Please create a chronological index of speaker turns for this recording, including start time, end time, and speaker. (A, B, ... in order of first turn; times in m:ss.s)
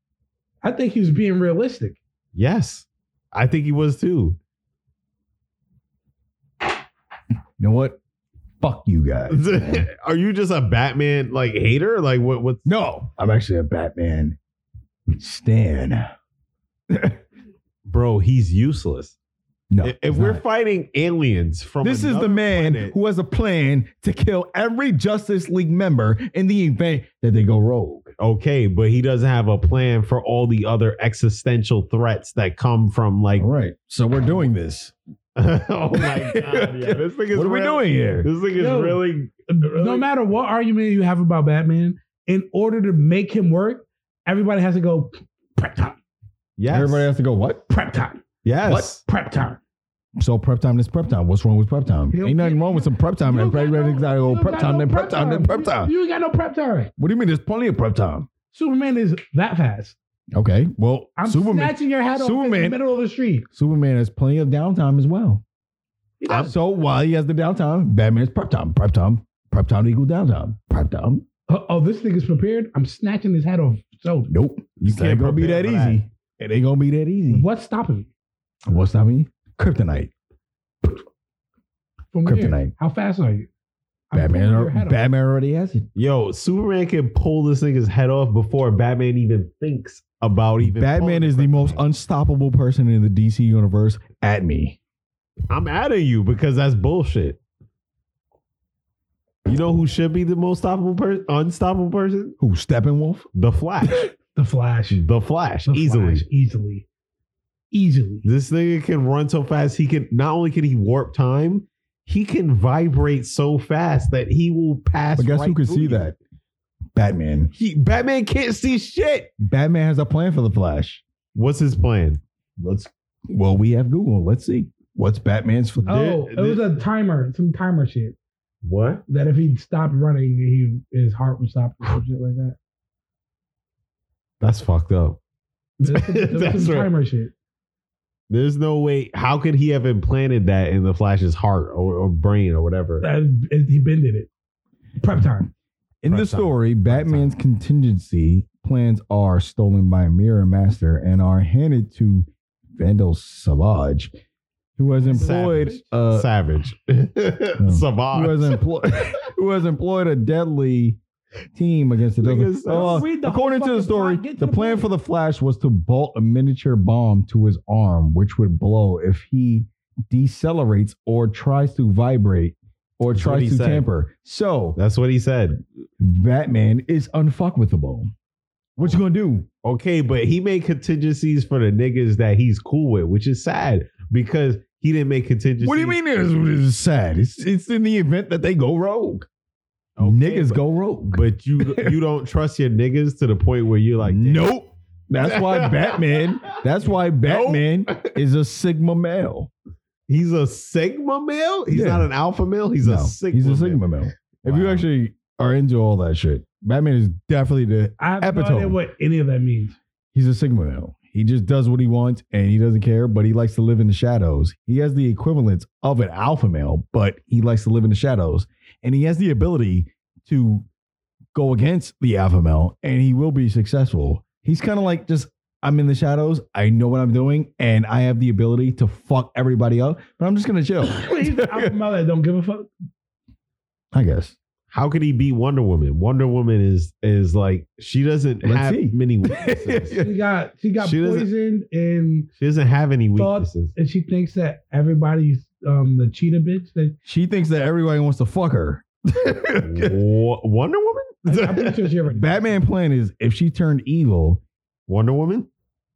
0:00.6-0:02.0 A
0:02.3-0:04.4 B
0:07.6-0:08.0 C
0:08.6-0:09.8 C
0:09.3-0:12.6 B
0:12.6-0:14.4 C
0:15.1-0:16.1 C
0:16.9-0:17.2 C
0:17.8-0:19.2 B
0:19.7-0:20.4 C
0:19.8-0:22.9 B
0:21.8-0:28.1 C
0:28.2-0:33.5 B
0:33.4-0:34.9 C
0:35.4-0:40.0 B
0:35.9-0:38.3 C
0:38.6-0:46.0 A
0:46.6-0:47.1 B
0:46.7-0:47.6 C
0:47.7-0:48.2 A
0:48.4-0:49.0 B
0:49.0-0:49.6 A
0:50.2-0:55.9 C
0:52.1-0:56.9 A
0:57.0-0:58.3 C
0:58.5-0:59.9 A
1:00.3-1:02.8 C
1:01.2-1:03.5 A
1:03.5-1:05.4 C
1:06.2-1:06.6 A
1:06.3-1:11.2 C
1:11.5-1:14.3 A
1:14.3-1:17.4 C
1:14.8-1:16.0 B
1:17.3-1:18.1 A
1:18.6-1:20.1 C
1:22.1-1:23.5 A
1:22.2-1:22.7 C
1:24.1-1:25.0 A
1:24.1-1:25.9 C
1:25.9-1:31.8 B
1:30.7-1:34.8 C
1:35.5-1:37.4 B
1:39.4-1:42.4 B
1:42.4-1:43.2 C
1:43.3-1:44.1 B
1:44.2-1:45.0 A
1:44.9-1:46.2 B
1:45.7-1:46.8 A
1:47.7-1:48.2 A
1:48.2-1:56.1 B
1:55.2-1:56.2 C
1:56.9-1:57.5 C
1:57.5-1:59.3 B
1:59.4-2:01.0 C
2:01.3-2:02.2 B
2:02.6-2:06.0 C
2:05.8-2:06.6 B
2:05.8-2:08.2 A
2:08.6-2:09.0 B
2:09.1-2:12.6 A
2:14.4-2:15.2 B
2:15.8-2:17.3 A
2:15.9-2:16.9 B
2:18.3-2:23.0 B
2:23.0-2:24.3 A
2:25.0-2:25.5 A
2:26.0-2:34.1 C
2:26.1-2:27.3 B
2:34.8-2:36.3 C
2:35.1-2:38.6 B
2:37.6-2:41.0 C
2:41.5-2:54.8 C
2:42.2-2:43.0 B
2:42.6-2:44.9 A
2:53.1-2:53.8 B
2:54.8-2:55.6 B
2:56.0-2:58.1 C
2:58.8-2:59.5 C
2:59.6-3:06.0 B
3:05.6-3:09.3 C
3:10.0-3:14.5 B
3:10.0-3:11.9 C
3:14.0-3:19.5 C
3:15.2-3:16.2 B
3:17.2-3:18.2 B
3:20.1-3:24.8 B
3:21.7-3:22.1 C
3:22.8-3:28.8 C
3:28.0-3:29.8 A
3:30.1-3:40.6 C
3:41.3-3:51.7 C
3:50.9-3:52.7 A
3:53.9-3:54.4 C
3:54.7-4:00.0 B
3:58.4-4:00.1 C
4:00.0-4:02.3 A
4:00.8-4:01.3 B
4:02.4-4:03.7 B
4:03.2-4:06.9 A
4:07.0-4:10.0 C
4:09.6-4:11.9 B
4:11.2-4:12.6 A
4:12.1-4:14.4 C
4:14.9-4:15.5 B